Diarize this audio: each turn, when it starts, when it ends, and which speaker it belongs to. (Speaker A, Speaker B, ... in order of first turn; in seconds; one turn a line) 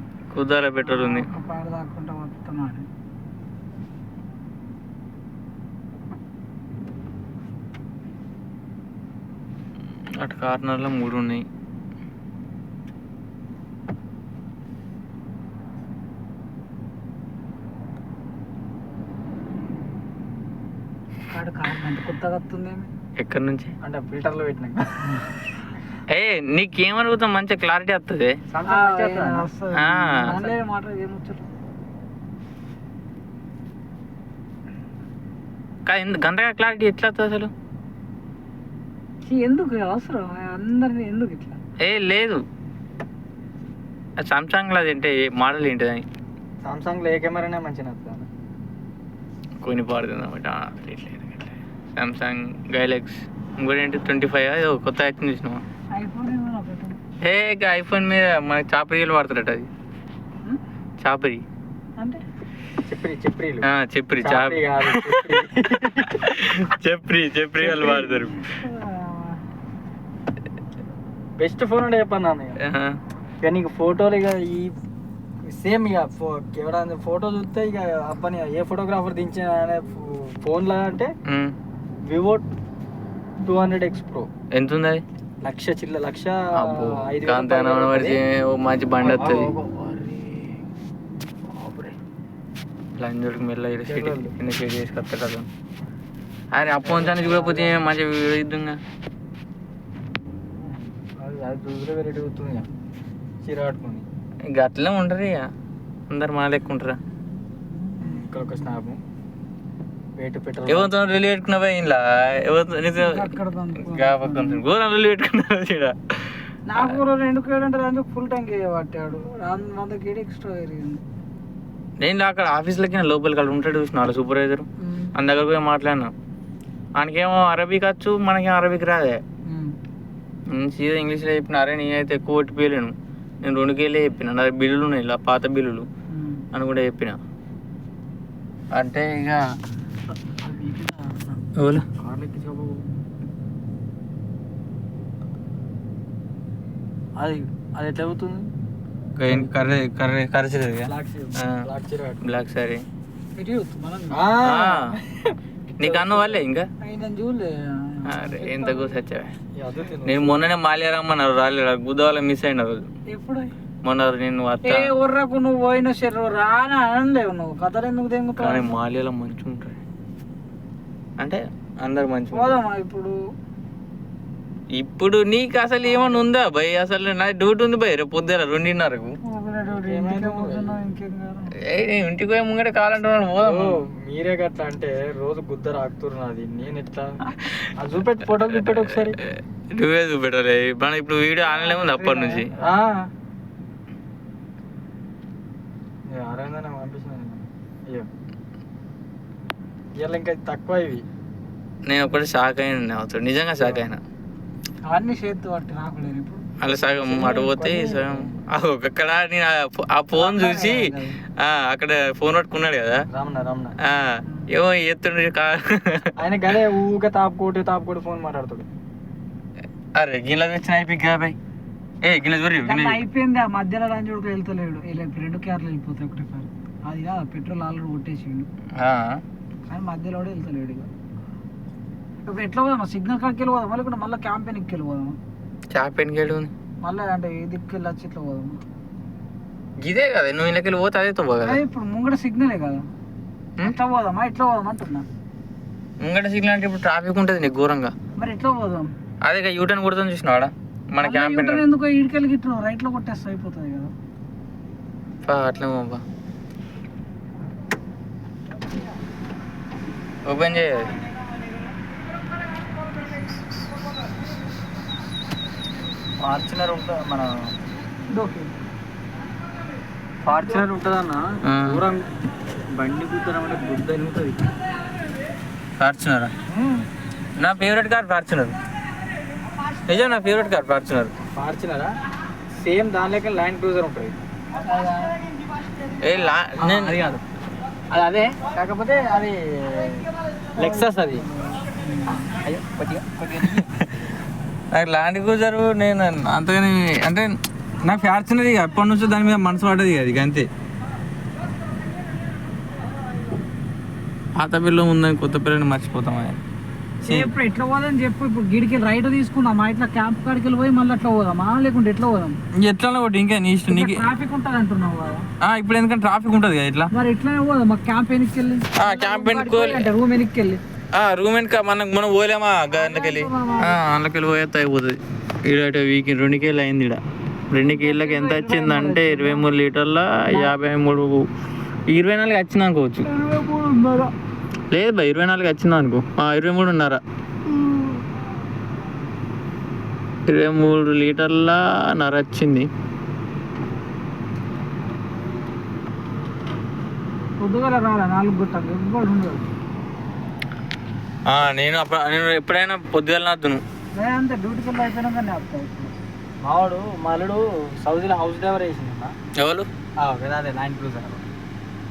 Speaker A: 0.3-1.3
Speaker B: 0.8-2.9
Speaker A: 10.2-11.4
Speaker B: 21.3-22.9
Speaker A: 23.2-23.7
Speaker C: 23.8-25.2
Speaker A: 26.1-28.4
Speaker C: 28.5-29.4
Speaker B: 28.7-31.5
Speaker A: 29.8-30.3
Speaker C: 30.3-30.6
Speaker A: 35.9-37.5
Speaker B: 39.2-41.6
Speaker A: 41.8-42.4
Speaker A: 44.2-46.0
Speaker C: 46.6-48.3
Speaker A: 49.6-55.6
Speaker B: 55.9-57.0
Speaker A: 57.2-59.7
Speaker A: 61.0-61.4
Speaker B: 62.0-62.2
Speaker C: 62.9-63.7
Speaker A: 63.6-65.4
Speaker C: 64.2-66.3
Speaker A: 66.0-68.5
Speaker C: 67.6-68.0
Speaker B: 68.0-69.4
Speaker C: 71.4-72.6
Speaker A: 72.6-73.0
Speaker C: 73.4-74.7
Speaker C: 75.4-81.1
Speaker A: 81.3-81.5
Speaker C: 82.0-82.5
Speaker C: 83.4-84.3
Speaker A: 84.5-85.0
Speaker C: 85.4-88.2
Speaker A: 86.5-89.5
Speaker C: 89.0-90.6
Speaker C: 91.5-92.0
Speaker A: 93.0-95.5
Speaker C: 93.9-94.3
Speaker A: 96.5-98.8
Speaker C: 96.7-97.8
Speaker C: 100.6-102.7
Speaker C: 103.4-104.1
Speaker A: 104.5-105.5
Speaker A: 106.1-107.0
Speaker B: 107.0-108.8
Speaker C: 108.0-109.0
Speaker C: 110.2-110.9
Speaker A: 110.7-113.3
Speaker B: 113.0-114.6
Speaker A: 113.8-116.0
Speaker B: 116.7-121.0
Speaker A: 122.0-126.1
Speaker B: 124.8-125.2
Speaker A: 127.0-129.2
Speaker B: 129.5-129.7
Speaker A: 130.5-135.9
Speaker B: 136.1-136.4
Speaker A: 136.5-137.2
Speaker A: 138.7-139.4
Speaker C: 140.3-141.4
Speaker A: 141.6-141.8
Speaker C: 142.0-143.0
Speaker C: 147.2-148.5
Speaker A: 149.2-151.7
Speaker C: 149.3-149.7
Speaker C: 150.8-152.2
Speaker A: 152.2-152.8
Speaker B: 153.4-154.2
Speaker C: 154.1-156.4
Speaker A: 154.4-154.9
Speaker A: 155.8-156.7
Speaker B: 156.8-159.0
Speaker A: 158.1-159.3
Speaker C: 159.6-160.5
Speaker A: 160.1-162.9
Speaker B: 163.1-163.5
Speaker A: 163.8-164.9
Speaker B: 164.7-168.8
Speaker A: 168.4-169.8
Speaker A: 171.2-172.6
Speaker B: 172.3-173.2
Speaker A: 174.8-179.1
Speaker B: 175.9-176.2
Speaker B: 179.2-181.5
Speaker C: 179.7-180.8
Speaker A: 181.7-183.8
Speaker C: 183.4-187.1
Speaker C: 187.8-189.2
Speaker A: 188.4-192.5
Speaker B: 191.4-192.4
Speaker C: 192.6-193.1
Speaker C: 196.1-198.1
Speaker C: 200.0-201.0
Speaker A: 201.9-204.0
Speaker B: 204.9-206.4
Speaker A: 206.6-213.0
Speaker C: 206.7-208.3
Speaker B: 210.2-211.2
Speaker C: 213.1-213.8
Speaker A: 213.8-216.1
Speaker C: 216.2-218.7
Speaker A: 219.9-221.4
Speaker A: 222.0-223.0
Speaker B: 222.7-228.5
Speaker A: 228.8-229.2
Speaker B: 229.7-230.9
Speaker B: 232.2-235.2
Speaker A: 235.7-236.5
Speaker B: 236.8-238.6
Speaker A: 239.8-241.6
Speaker B: 241.4-242.8
Speaker B: 243.6-245.1
Speaker A: 246.0-247.9
Speaker B: 248.2-248.9
Speaker A: 249.2-251.6
Speaker B: 251.0-253.9
Speaker A: 255.2-256.0
Speaker A: 260.3-260.9
Speaker C: 266.2-267.5
Speaker B: 268.1-268.5
Speaker C: 270.2-272.1
Speaker A: 271.4-271.8
Speaker C: 272.7-274.5
Speaker A: 275.8-276.3
Speaker C: 276.5-276.9
Speaker A: 277.4-278.6
Speaker A: 279.9-281.1
Speaker C: 281.3-281.9
Speaker C: 282.6-284.2
Speaker B: 284.6-285.3
Speaker A: 286.0-287.0
Speaker C: 286.6-287.2
Speaker C: 287.9-291.2
Speaker B: 290.6-292.3
Speaker C: 292.3-293.7
Speaker A: 294.7-297.3
Speaker A: 297.8-300.5
Speaker A: 304.4-306.4
Speaker B: 307.0-312.4
Speaker A: 307.1-307.3
Speaker A: 312.6-314.1
Speaker B: 313.7-315.3
Speaker A: 315.4-316.9
Speaker B: 316.9-320.6
Speaker A: 318.8-319.9
Speaker A: 320.9-331.3
Speaker B: 322.7-323.8
Speaker B: 327.6-329.5
Speaker B: 330.3-330.6
Speaker A: 331.9-333.1
Speaker B: 333.1-334.1
Speaker A: 334.7-337.0
Speaker A: 340.3-342.7
Speaker B: 347.4-349.5
Speaker A: 351.3-353.6
Speaker B: 353.9-355.9
Speaker C: 356.4-359.1
Speaker A: 359.4-359.7
Speaker C: 360.0-361.2